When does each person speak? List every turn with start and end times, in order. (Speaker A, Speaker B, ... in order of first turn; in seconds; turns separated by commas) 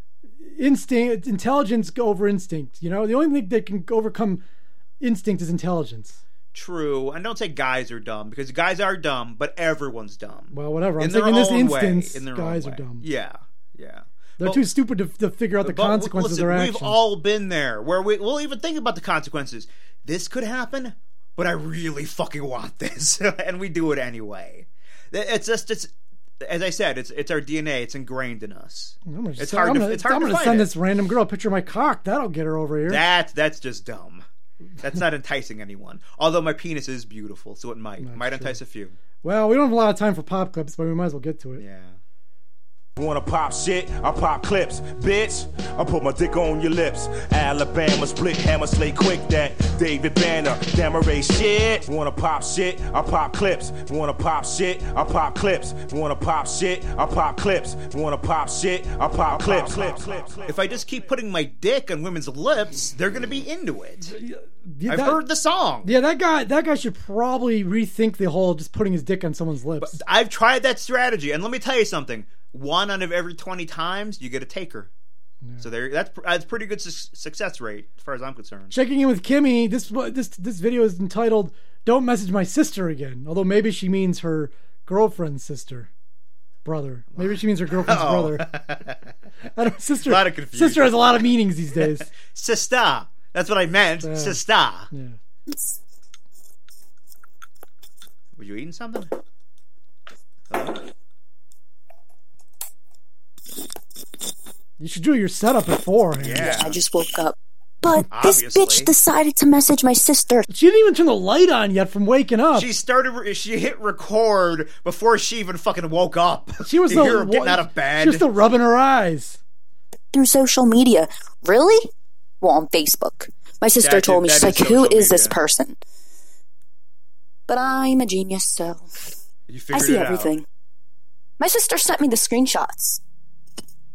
Speaker A: 0.4-4.4, Speaker A: 5.0-6.2, Speaker B: 6.5-14.7, Speaker A: 10.5-13.1, Speaker A: 14.4-17.0, Speaker B: 15.6-30.7, Speaker A: 29.1-33.0, Speaker B: 32.9-34.2, Speaker B: 34.8-39.0, Speaker A: 38.0-38.6, Speaker A: 39.2-41.6, Speaker B: 41.6-42.0, Speaker C: 43.0-60.5, Speaker B: 59.4-64.2, Speaker A: 64.1-65.2, Speaker B: 64.9-65.9, Speaker A: 65.8-70.0, Speaker B: 69.8-74.9, Speaker B: 75.6-78.7, Speaker A: 78.7-85.9, Speaker A: 86.7-88.5, Speaker B: 87.1-89.1, Speaker A: 89.5-92.1, Speaker B: 90.0-91.3, Speaker B: 91.8-94.9, Speaker A: 94.0-94.4, Speaker A: 94.9-95.2, Speaker B: 98.3-99.1, Speaker B: 100.5-100.9, Speaker A: 104.8-106.6, Speaker B: 106.2-106.8, Speaker D: 106.4-110.5, Speaker B: 108.1-108.9, Speaker A: 110.5-112.7, Speaker B: 112.5-118.3, Speaker A: 116.6-119.4, Speaker D: 120.1-121.9, Speaker D: 122.4-125.8, Speaker B: 123.8-125.4, Speaker D: 127.5-128.9, Speaker B: 129.5-130.3, Speaker D: 129.7-130.4, Speaker D: 131.4-133.0